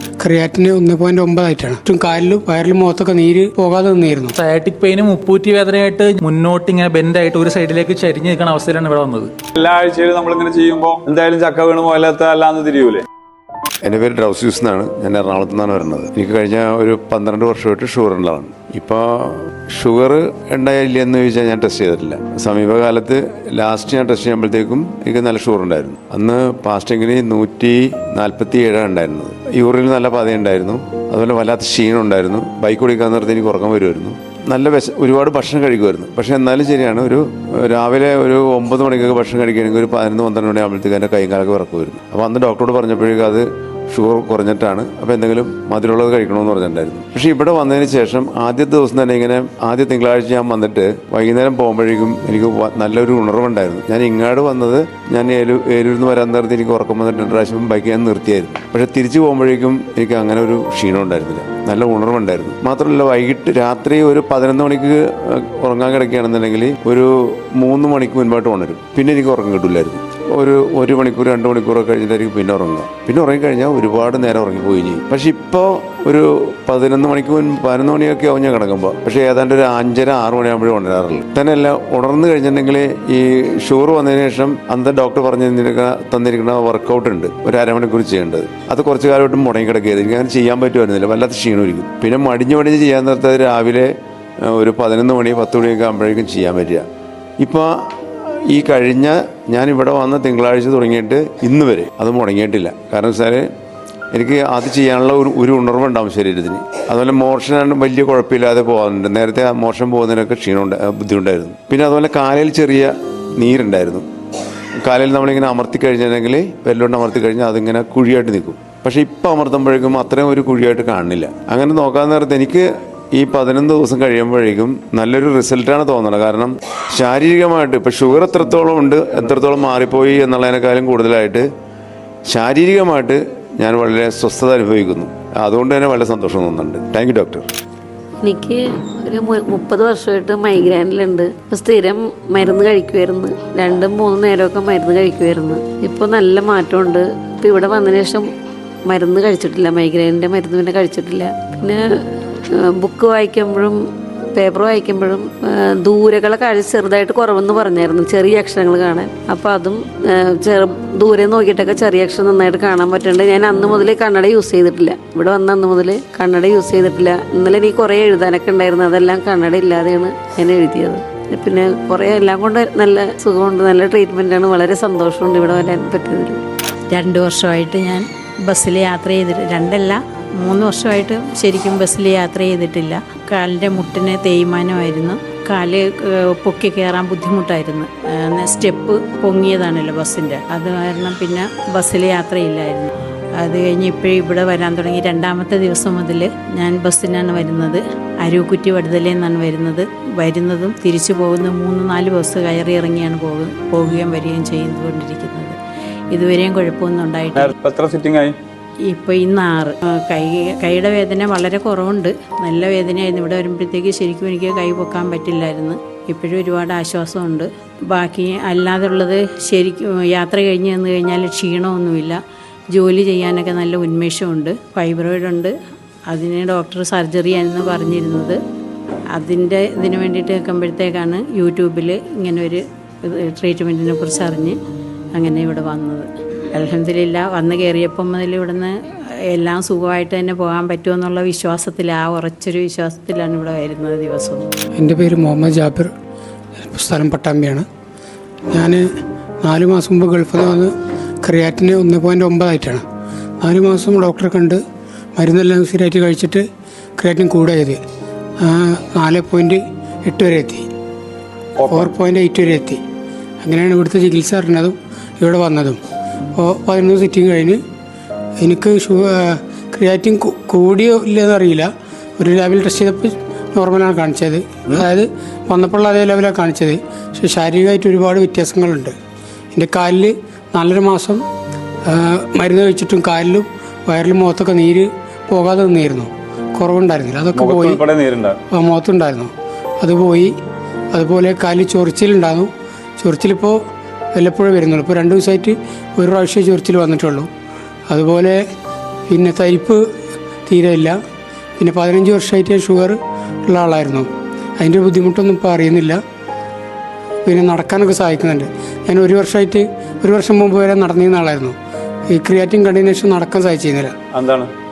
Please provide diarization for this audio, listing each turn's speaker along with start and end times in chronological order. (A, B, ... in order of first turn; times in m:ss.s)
0:00.2-0:04.3 A
0:04.4-0:09.3 B
0:09.6-0:13.0 C
0:13.8-1:33.9 D
1:34.4-1:36.8 D
1:37.4-1:43.5 D
1:44.1-1:54.0 D
1:54.8-2:11.5 D
2:12.3-2:17.5 D
2:18.2-2:28.3 E
2:28.9-2:33.8 E
2:34.3-2:56.4 E
2:56.9-3:25.6 F
3:26.1-3:27.5 F
3:27.4-3:28.4 C
3:28.9-3:42.2 F
3:42.7-3:45.5 F
3:46.1-3:48.4 F
3:49.2-3:54.6 F
3:55.2-3:58.7 F
3:59.3-4:04.5 F
4:04.8-4:05.9 A
4:06.7-4:07.7 A
4:08.5-4:08.8 A
4:09.4-4:10.7 A
4:11.2-4:12.8 A
4:13.4-4:14.6 A
4:15.2-4:16.4 A
4:17.0-4:17.8 A
4:18.4-4:20.7 A
4:21.6-4:21.9 C
4:21.7-4:22.8 A
4:23.4-4:25.8 A
4:26.4-4:27.6 A
4:28.4-4:38.9 A
4:39.5-4:41.2 A
4:41.9-4:47.8 A
4:47.4-4:48.4 C
4:48.5-4:50.3 A
4:50.9-4:53.6 A
4:54.2-4:57.3 A
4:57.9-4:58.4 A
4:59.1-4:59.8 A
5:00.5-5:01.0 A
5:01.6-5:04.1 A
5:04.6-5:06.0 A
5:07.3-5:11.6 A
5:12.1-5:13.9 A
5:14.1-5:14.5 C